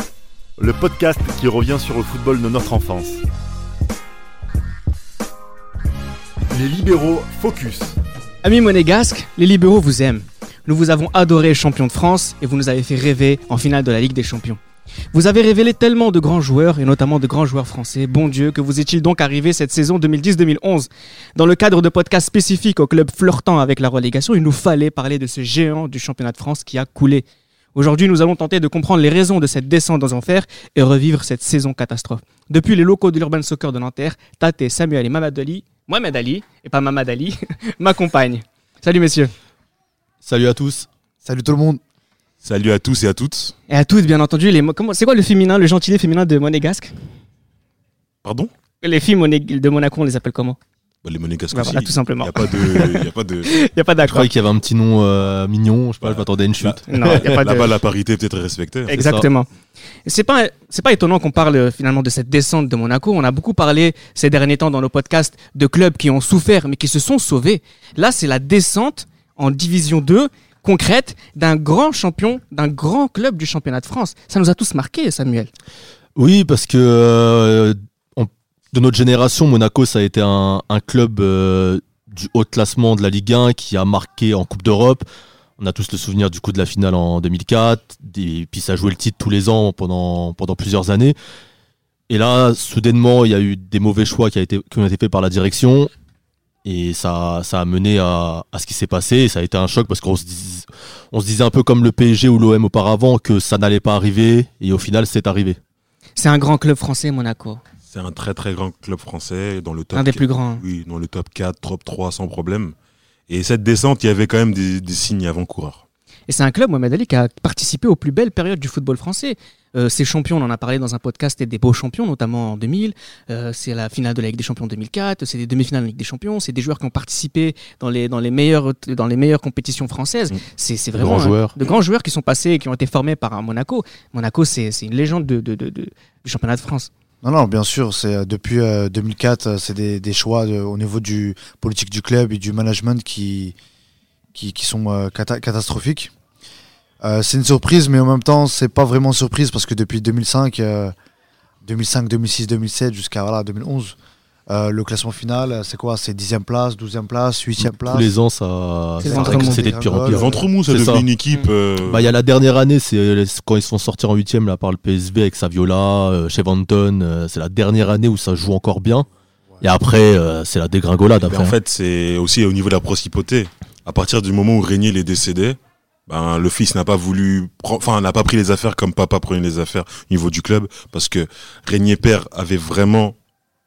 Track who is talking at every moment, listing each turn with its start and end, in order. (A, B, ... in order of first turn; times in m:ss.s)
0:00.6-0:03.2 A
0:06.5-0:07.9 A
0:08.4-0:14.6 B
0:15.1-0:39.3 B
0:40.2-0:40.9 C
0:41.2-0:41.8 D
0:42.4-0:43.5 E
0:43.7-0:46.9 B
0:48.2-0:48.5 E
0:48.8-0:50.6 B
0:51.0-0:53.6 E
0:51.5-0:54.3 B
0:54.1-0:57.2 C
0:56.0-0:59.0 E
0:56.9-0:57.7 B
0:58.9-0:59.5 B
0:58.9-0:59.3 C
1:00.1-1:15.5 B
1:16.2-1:25.0 C
1:25.6-1:31.2 C
1:32.1-1:35.9 C
1:36.6-1:45.6 C
1:46.2-1:47.6 B
1:47.9-1:52.8 E
1:49.9-1:50.6 B
1:53.3-1:55.8 E
1:56.3-2:16.9 B
2:10.9-2:11.6 C
2:17.2-2:23.6 D
2:24.4-2:26.1 D
2:27.0-2:30.9 D
2:31.6-2:34.0 D
2:34.5-2:38.1 D
2:37.6-2:41.1 C
2:39.0-2:39.6 B
2:39.0-2:40.5 D
2:40.1-2:42.1 E
2:41.8-2:49.1 C
2:49.6-2:51.6 C
2:51.1-3:03.2 E